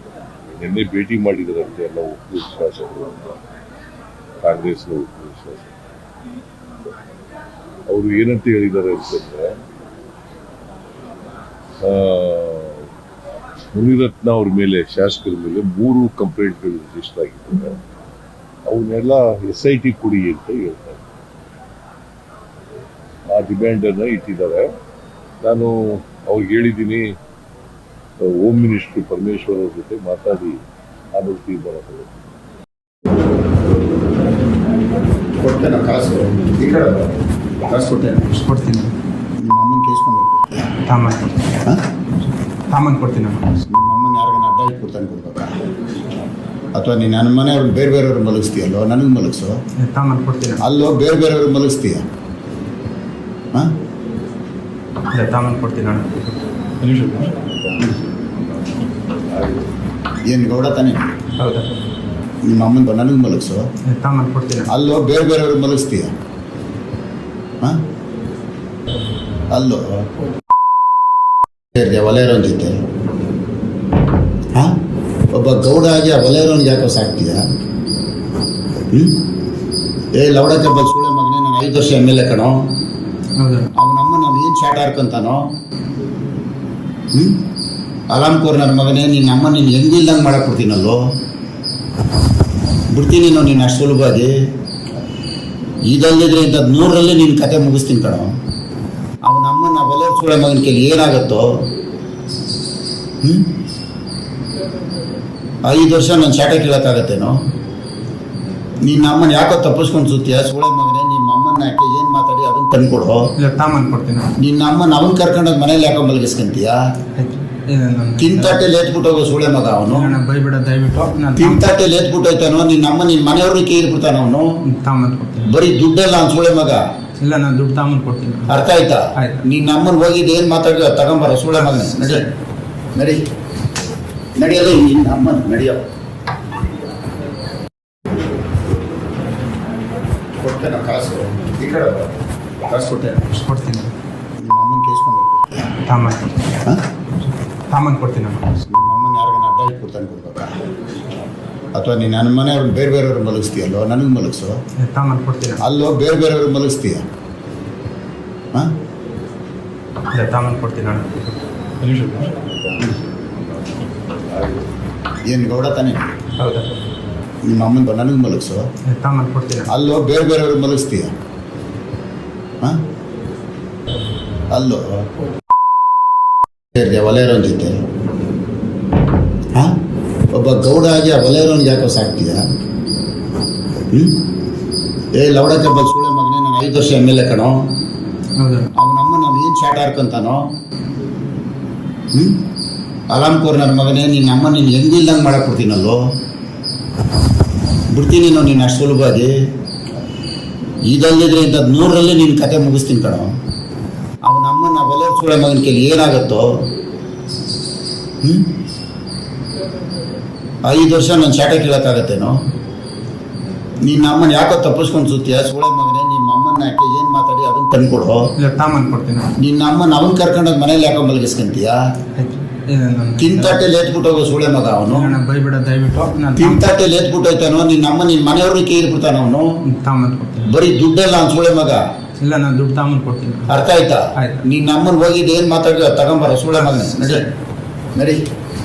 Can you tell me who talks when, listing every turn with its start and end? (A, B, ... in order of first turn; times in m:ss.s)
0:00.5-0:03.4 A
0:04.4-0:05.7 A
0:07.9-0:09.5 A
0:11.8-0:12.8 A
0:13.7-0:17.8 A
0:18.7-0:21.0 A
0:23.3-0:24.6 A
0:25.4-0:27.0 A
0:28.2-0:30.6 A
0:31.1-0:32.1 A
0:35.4-0:37.1 B
0:37.7-0:38.4 B
0:38.4-0:38.9 C
0:39.4-0:40.7 B
0:40.8-0:41.2 C
0:42.7-0:43.4 C
0:43.7-0:45.6 B
0:46.7-0:49.5 B
0:49.8-0:50.6 C
0:50.6-0:52.0 B
0:55.1-0:57.3 C
0:58.6-0:59.7 A
1:00.3-1:01.1 B
1:01.4-1:01.7 C
1:02.4-1:03.6 B
1:03.9-1:04.7 C
1:04.7-1:06.1 B
1:09.5-1:10.0 B
1:11.7-1:12.8 B
1:15.3-1:17.4 B
1:18.9-1:19.2 B
1:20.2-1:22.6 B
1:23.4-1:23.7 C
1:23.8-1:25.4 B
1:27.1-1:27.4 B
1:28.1-1:31.0 B
1:32.9-1:34.3 B
1:35.9-1:38.3 B
1:39.2-1:41.5 B
1:43.2-1:43.5 B
1:45.6-1:47.4 B
1:48.8-1:53.2 B
1:53.4-1:54.3 C
1:54.4-1:56.8 B
1:57.2-1:58.6 C
1:58.2-2:00.1 B
1:59.9-2:01.6 C
2:01.4-2:04.4 B
2:04.6-2:05.5 C
2:05.5-2:06.8 B
2:07.2-2:08.5 C
2:08.5-2:12.2 B
2:09.2-2:09.4 C
2:12.9-2:13.2 B
2:14.4-2:15.8 B
2:20.4-2:22.0 B
2:22.7-2:23.3 B
2:23.3-2:23.9 C
2:24.4-2:25.7 B
2:25.8-2:26.2 C
2:27.7-2:28.4 C
2:28.6-2:30.6 B
2:31.7-2:34.5 B
2:34.8-2:35.6 C
2:35.6-2:37.0 B
2:40.1-2:42.3 C
2:42.5-2:42.8 A
2:43.4-2:44.7 A
2:45.3-2:46.0 B
2:46.4-2:46.7 C
2:47.4-2:48.6 B
2:48.9-2:49.7 C
2:49.7-2:51.1 B
2:54.5-2:55.0 B
2:56.7-2:57.8 B
3:00.3-3:02.4 B
3:03.9-3:04.2 B
3:05.2-3:07.7 B
3:08.4-3:08.7 C
3:08.8-3:10.4 B
3:12.1-3:12.4 B
3:13.1-3:16.0 B
3:17.9-3:19.3 B
3:20.9-3:23.3 B
3:24.2-3:26.5 B
3:28.2-3:28.5 B
3:30.6-3:32.4 B
3:33.8-3:38.2 B
3:38.4-3:39.3 C
3:39.4-3:41.8 B
3:42.2-3:43.6 C
3:43.2-3:45.1 B
3:44.9-3:46.6 C
3:46.4-3:49.4 B
3:49.6-3:50.5 C
3:50.5-3:51.8 B
3:52.2-3:53.5 C
3:53.5-3:57.2 B
3:54.2-3:54.4 C
3:57.9-3:58.2 B